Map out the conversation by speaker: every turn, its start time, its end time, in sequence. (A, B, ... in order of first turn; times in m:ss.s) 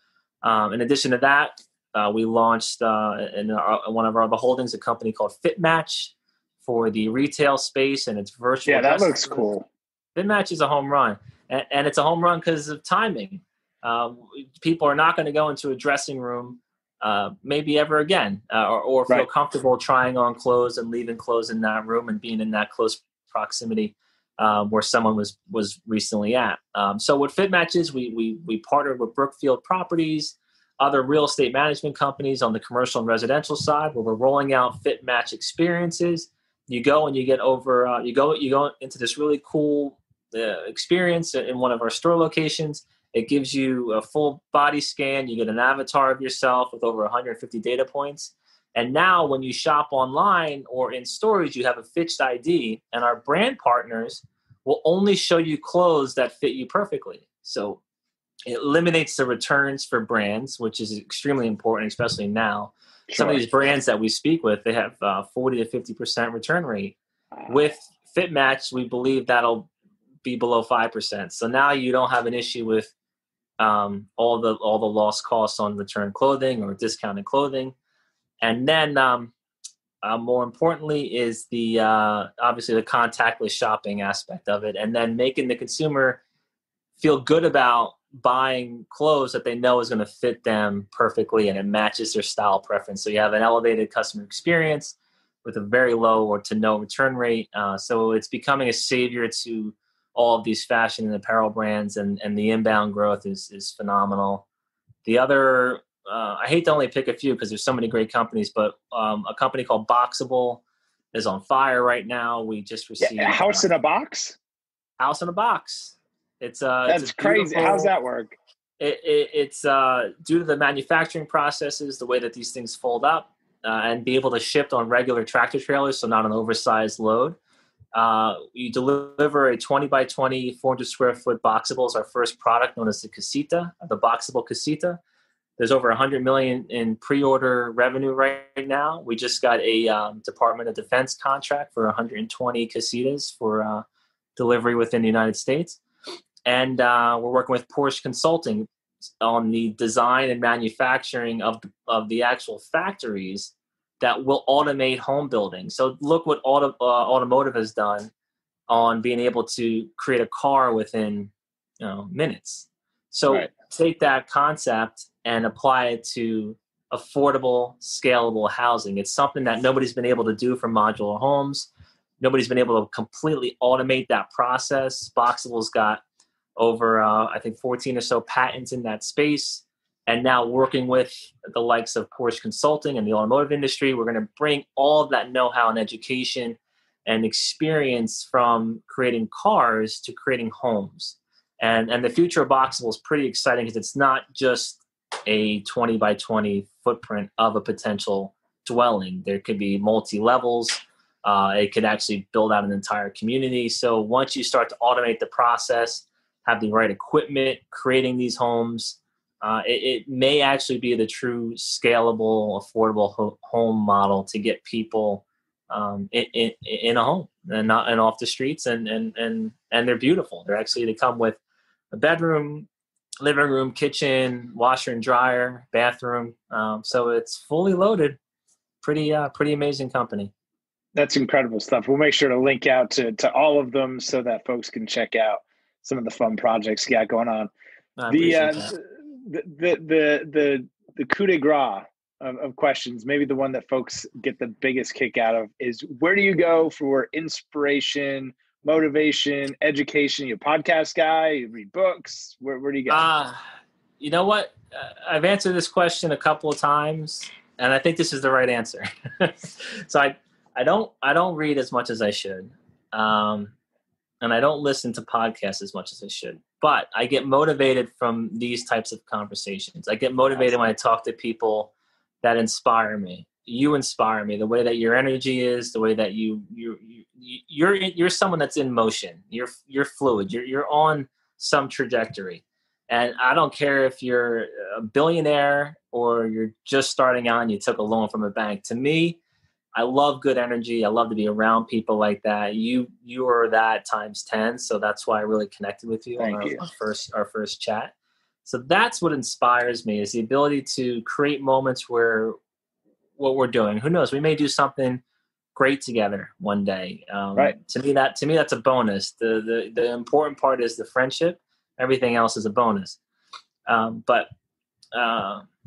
0:00.4-0:09.4 A
0:08.7-0:09.7 B
0:10.2-0:57.8 A
0:58.5-1:07.0 A
1:03.1-1:03.4 B
1:07.5-1:09.7 A
1:10.2-1:12.9 A
1:13.6-1:17.8 A
1:18.4-1:19.3 A
1:20.0-1:26.2 A
1:27.0-1:44.5 A
1:45.0-1:53.7 A
1:53.0-1:54.4 B
1:55.0-1:57.9 A
1:56.9-1:58.4 B
1:58.8-2:07.4 A
2:08.0-2:15.0 A
2:15.6-2:23.8 A
2:24.4-2:25.8 A
2:26.5-2:28.7 A
2:29.2-2:38.1 A
2:38.7-2:51.7 A
2:52.2-2:56.0 A
2:56.6-3:41.4 A
3:41.9-3:42.7 A
3:43.2-3:48.2 A
3:48.8-3:50.3 A
3:51.0-3:57.5 B
3:58.0-3:58.7 A
3:58.1-4:13.1 B
4:12.9-4:13.4 A
4:14.0-4:23.5 A
4:24.2-4:49.2 A
4:49.8-4:57.9 A
4:56.2-4:56.6 B
4:58.4-5:02.4 A
5:03.2-5:05.0 A
5:05.6-5:13.0 A
5:13.7-5:14.3 A
5:14.9-5:15.5 A